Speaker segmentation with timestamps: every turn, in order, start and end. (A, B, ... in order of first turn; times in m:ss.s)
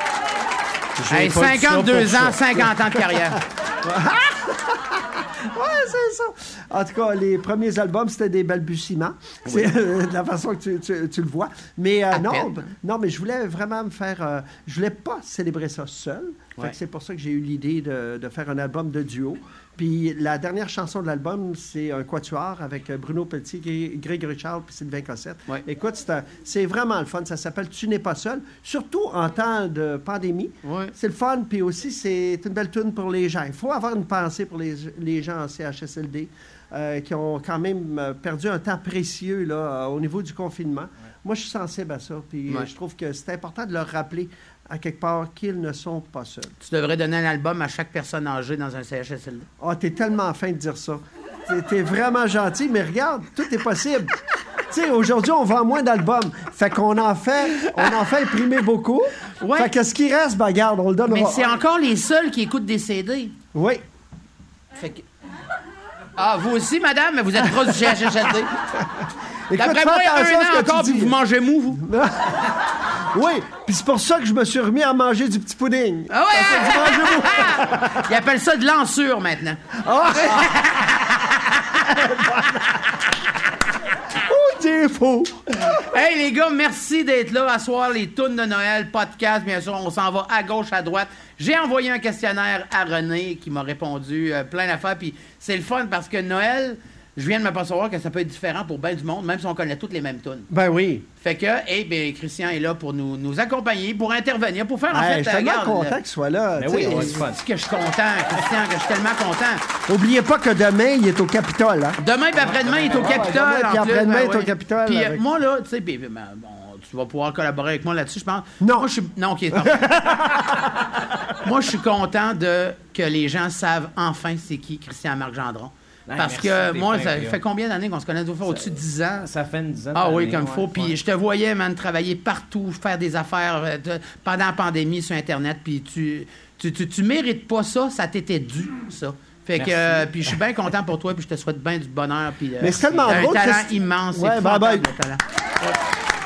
0:01.0-0:46.5 A
0:01.1-0:03.4 B
0:12.1-0:12.6 B
0:30.6-0:30.9 B
0:46.6-0:49.5 B
0:49.6-0:54.1 A
0:54.7-1:01.6 A
0:59.4-0:59.7 B
1:01.0-1:03.4 B
1:03.5-1:03.8 A
1:04.8-1:05.0 B
1:06.2-1:08.5 B
1:09.5-1:11.2 A
1:09.5-1:11.8 B
1:11.8-1:18.0 A
1:16.1-1:22.3 B
1:19.8-1:20.6 A
1:21.8-1:22.6 A
1:24.1-1:25.7 A
1:25.6-1:40.5 B
1:40.5-1:41.1 A
1:41.2-1:46.0 B
1:44.9-1:47.2 A
1:46.6-1:47.4 C
1:46.8-1:49.6 B
1:49.9-1:52.0 A
1:52.0-2:00.3 B
1:52.5-1:55.2 A
1:58.6-1:58.9 A
1:59.5-2:01.2 A
2:01.4-2:09.3 B
2:06.1-2:07.4 C
2:08.5-2:11.0 C
2:10.0-2:25.8 B
2:19.6-2:20.4 C
2:22.6-2:24.9 A
2:22.9-2:23.2 C